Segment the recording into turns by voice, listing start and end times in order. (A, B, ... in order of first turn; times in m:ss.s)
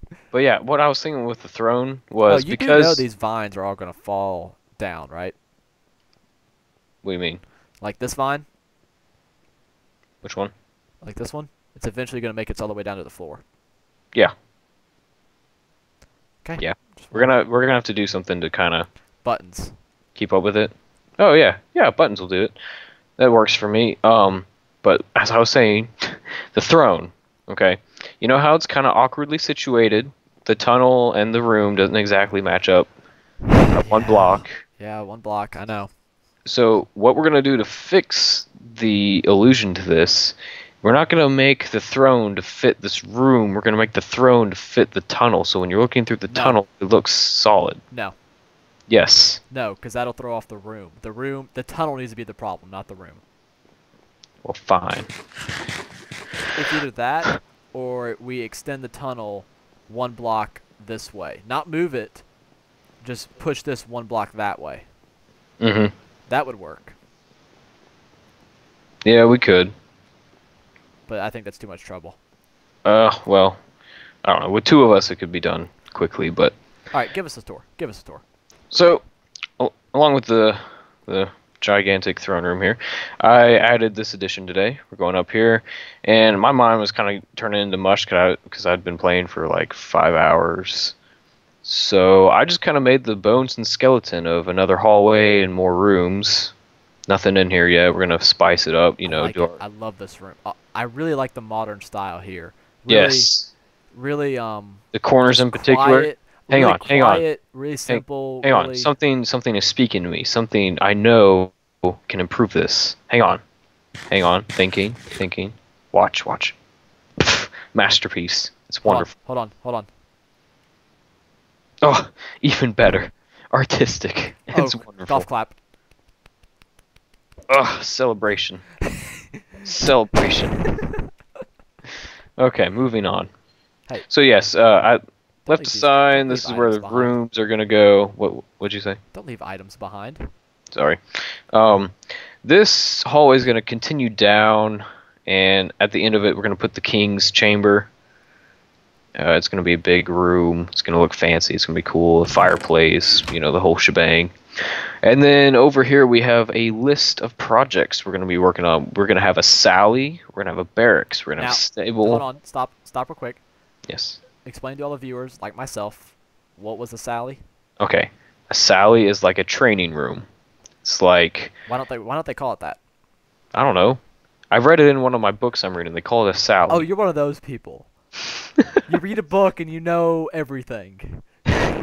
0:00.3-0:03.0 A
0:02.3-0:05.4 B
0:07.0-0:07.4 A
0:07.8-0:08.5 B
0:10.2-0:10.5 A
0:11.0-0:13.4 B
0:16.4-0:17.4 B
0:16.6-0:18.9 A
0:19.2-0:19.7 B
0:20.2-0:22.6 A
0:23.2-0:32.9 A
0:33.6-0:35.9 B
0:33.7-0:34.6 A
0:36.5-0:47.8 A
0:46.3-0:46.6 B
0:47.9-0:48.2 B
0:48.9-0:49.4 A
0:49.5-0:53.2 B
0:54.4-0:55.1 A
0:56.5-1:02.3 B
1:03.0-1:04.9 B
1:05.6-1:05.9 A
1:06.3-1:07.0 B
1:09.0-1:09.7 A
1:11.1-1:12.2 B
1:12.8-1:13.6 A
1:14.2-1:16.5 A
1:16.9-1:18.2 B
1:18.7-1:19.0 A
1:19.6-1:31.0 A
1:31.6-1:36.5 A
1:37.1-1:39.6 A
1:39.0-1:43.3 B
1:42.9-1:43.5 A
1:43.9-1:48.9 B
1:44.9-1:47.3 A
1:47.9-1:53.4 A
1:54.1-1:56.6 A
1:57.2-1:59.1 A
1:58.8-1:59.9 B
2:01.8-2:05.3 A
2:04.5-2:05.6 B
2:07.5-2:08.7 A
2:09.6-2:10.7 A
2:12.4-2:13.3 A
2:14.1-2:19.0 A
2:15.5-2:17.2 B
2:19.1-2:20.3 B
2:20.7-2:21.0 A
2:21.5-2:27.9 A
2:29.2-2:42.2 A
2:41.4-2:43.4 B
2:43.9-2:44.2 A
2:44.4-2:47.4 B
2:47.8-2:50.2 A
2:50.8-2:51.5 A
2:51.7-2:52.8 B
2:53.5-2:54.0 A
2:54.5-2:56.9 A
2:56.7-2:57.9 B
2:58.9-3:01.2 B